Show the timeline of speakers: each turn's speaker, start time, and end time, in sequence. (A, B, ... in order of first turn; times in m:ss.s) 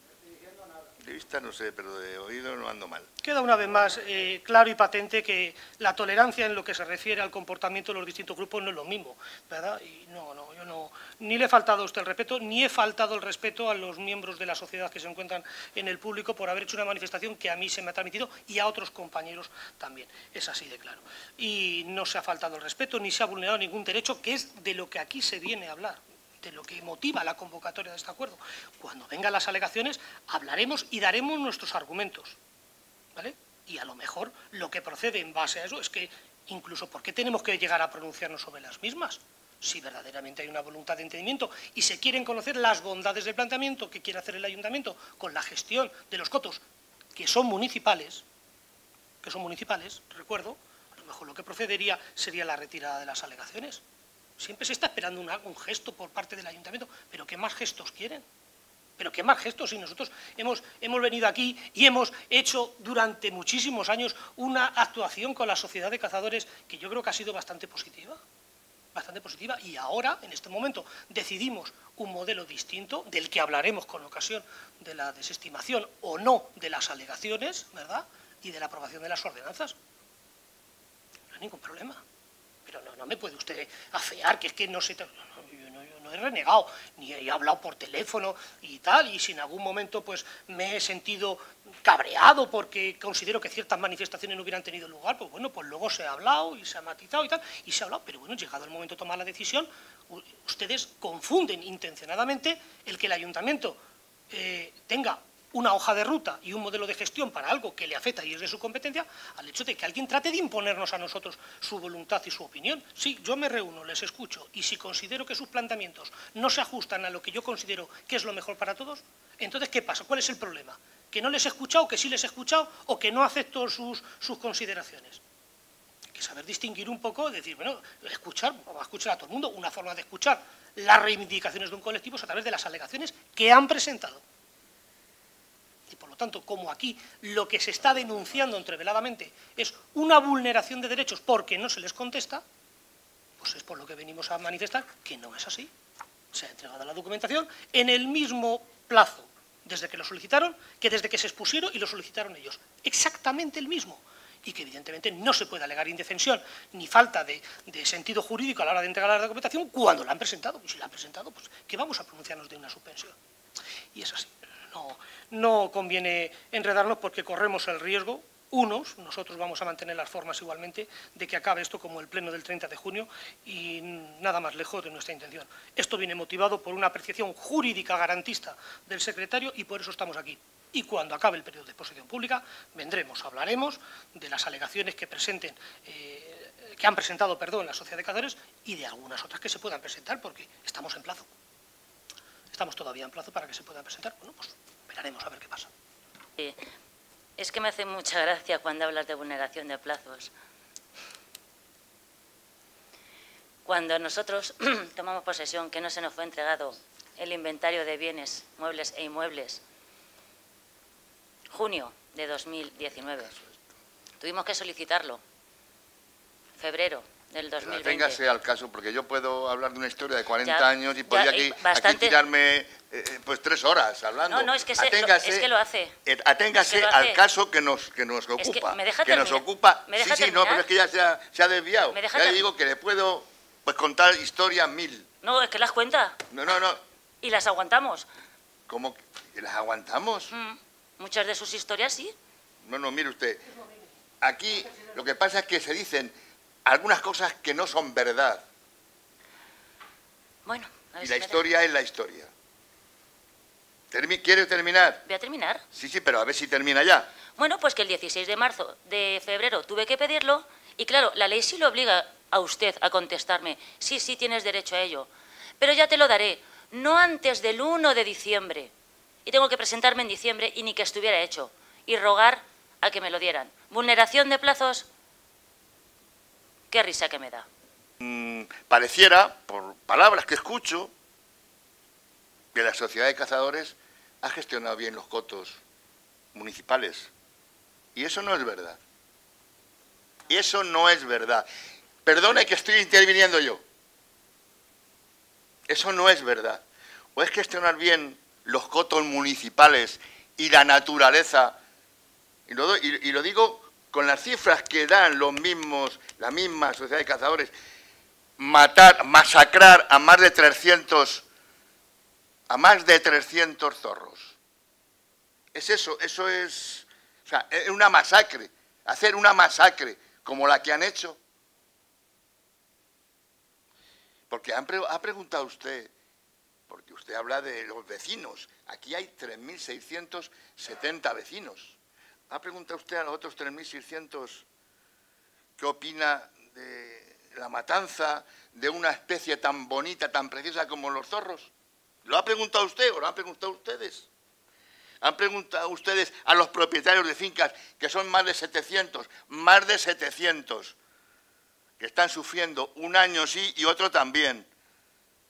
0:01.0-0:03.1 A
0:03.2-0:32.4 B
0:33.2-0:46.6 B
0:47.1-0:48.2 B
0:49.2-0:53.8 B
0:54.4-0:58.2 B
0:59.0-1:08.2 B
1:08.9-1:19.8 B
1:21.3-1:22.0 B
1:22.6-1:43.8 B
1:44.3-2:05.2 B
2:06.1-2:14.2 B
2:15.9-2:22.4 B
2:23.4-2:25.7 B
2:26.3-2:43.2 B
2:43.9-3:11.3 B
3:12.5-3:15.7 B
3:16.4-3:16.6 C
3:17.4-3:20.3 C
3:23.6-3:29.6 C
3:31.5-3:33.4 C
3:34.2-3:35.2 C
3:36.6-3:38.2 C
3:37.6-3:45.5 A
3:40.4-3:42.1 C
3:44.3-3:46.0 C
3:46.0-3:55.1 A
3:46.6-3:47.2 C
3:48.4-3:50.6 C
3:51.9-3:52.4 C
3:55.2-3:56.2 C
3:56.3-3:56.8 A
3:57.2-3:58.1 C
3:58.7-4:00.3 A
4:00.3-4:02.1 C
4:02.6-4:03.4 A
4:04.2-4:06.1 A
4:06.6-4:08.4 A
4:10.4-4:11.4 C
4:11.0-4:12.3 A
4:13.9-4:15.0 A
4:15.0-4:15.6 C
4:15.7-4:17.1 A
4:17.4-4:28.7 C
4:29.3-4:34.9 C
4:36.7-4:37.4 C
4:38.0-4:40.9 A
4:42.5-4:45.6 A
4:46.3-4:47.1 A
4:47.9-4:48.8 A
4:50.3-4:51.4 A
4:52.0-4:53.6 A
4:55.7-4:56.6 A
4:57.1-5:01.6 A
5:02.5-5:07.5 A
5:08.4-5:11.2 A
5:12.5-5:14.4 A
5:15.5-5:21.2 A
5:24.3-5:25.9 A
5:26.7-5:31.8 A
5:32.3-5:34.4 A
5:35.6-5:41.5 A
5:42.0-5:44.1 A
5:45.0-5:50.8 A
5:51.8-5:54.5 A